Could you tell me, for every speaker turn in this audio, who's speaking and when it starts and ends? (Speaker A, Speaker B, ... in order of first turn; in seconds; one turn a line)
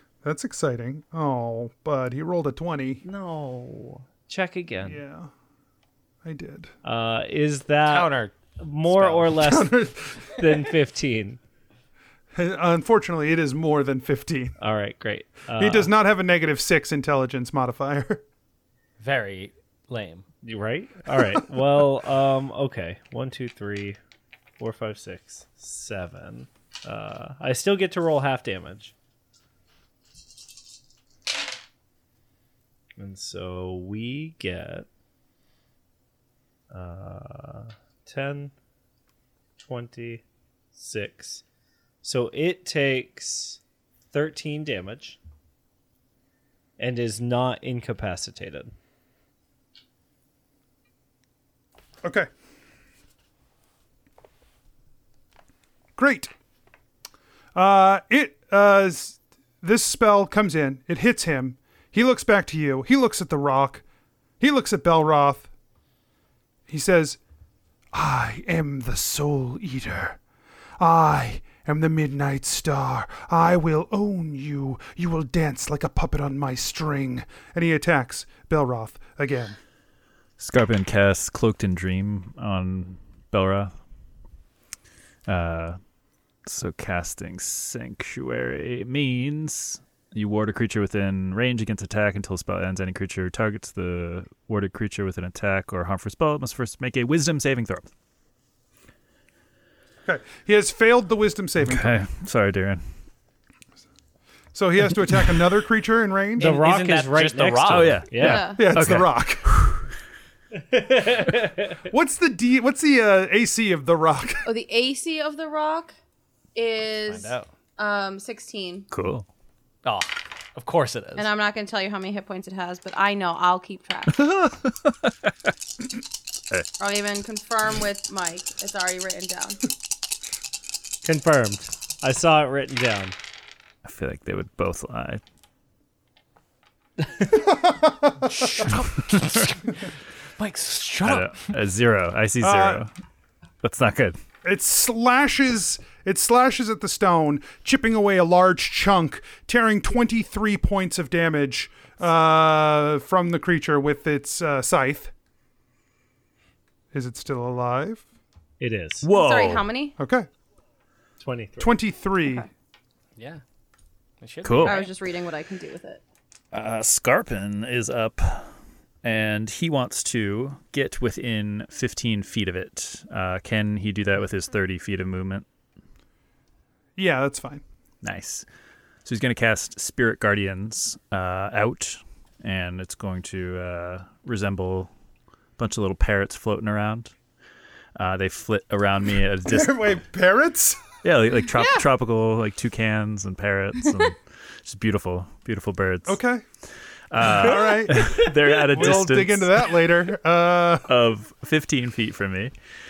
Speaker A: 0.2-3.0
Speaker B: 3.0-5.0
Speaker A: 4.8-5.3
Speaker A: 6.2-6.7
Speaker B: 6.8-9.7
Speaker C: 7.9-8.3
Speaker C: 8.9-9.3
Speaker A: 9.3-10.4
Speaker B: 10.3-11.4
Speaker A: 12.4-14.6
Speaker B: 14.6-15.9
Speaker A: 15.6-18.2
Speaker C: 19.0-20.3
Speaker B: 20.4-24.0
Speaker B: 24.6-28.9
Speaker B: 33.0-34.9
Speaker B: 36.7-38.5
Speaker B: 39.6-40.2
Speaker B: 40.8-41.4
Speaker B: 42.0-43.6
Speaker B: 44.1-45.2
Speaker B: 46.8-48.7
Speaker A: 52.0-52.3
Speaker A: 56.0-56.3
Speaker A: 57.5-63.8
Speaker A: 64.4-65.5
Speaker A: 66.7-67.2
Speaker A: 67.9-70.2
Speaker A: 70.8-79.6
Speaker D: 80.4-83.7
Speaker D: 85.3-85.8
Speaker D: 86.5-97.9
Speaker A: 100.0-102.0
Speaker D: 101.6-102.8
Speaker A: 104.5-106.6
Speaker B: 106.4-108.5
Speaker C: 106.4-108.0
Speaker D: 107.7-109.7
Speaker E: 108.2-108.7
Speaker A: 108.5-109.5
Speaker B: 110.7-111.8
Speaker A: 111.9-114.5
Speaker E: 114.5-116.0
Speaker E: 116.5-118.9
Speaker C: 117.1-117.5
Speaker D: 118.9-119.3
Speaker C: 119.8-121.3
Speaker E: 121.2-124.3
Speaker D: 124.3-124.9
Speaker E: 126.8-129.6
Speaker B: 131.0-133.1
Speaker D: 133.8-135.2
Speaker A: 137.3-138.7
Speaker C: 138.5-139.8
Speaker C: 140.4-141.3
Speaker D: 141.0-142.9
Speaker A: 142.4-142.8
Speaker D: 143.6-144.2
Speaker A: 144.4-155.1
Speaker A: 156.9-158.0
Speaker B: 158.6-159.1
Speaker D: 159.0-159.7
Speaker E: 159.1-160.0
Speaker A: 160.0-160.3
Speaker B: 161.2-161.7
Speaker A: 161.6-162.5
Speaker C: 163.2-163.4
Speaker C: 164.2-164.9
Speaker D: 164.4-164.8
Speaker E: 164.6-166.0
Speaker D: 166.5-168.5
Speaker D: 169.0-175.5
Speaker A: 177.0-177.6
Speaker D: 178.0-178.4
Speaker D: 179.1-184.9
Speaker D: 185.6-187.1
Speaker D: 188.0-190.0
Speaker A: 189.5-190.8
Speaker D: 191.0-196.2
Speaker A: 196.1-196.4
Speaker D: 197.1-199.8
Speaker A: 197.2-200.9
Speaker D: 200.9-202.5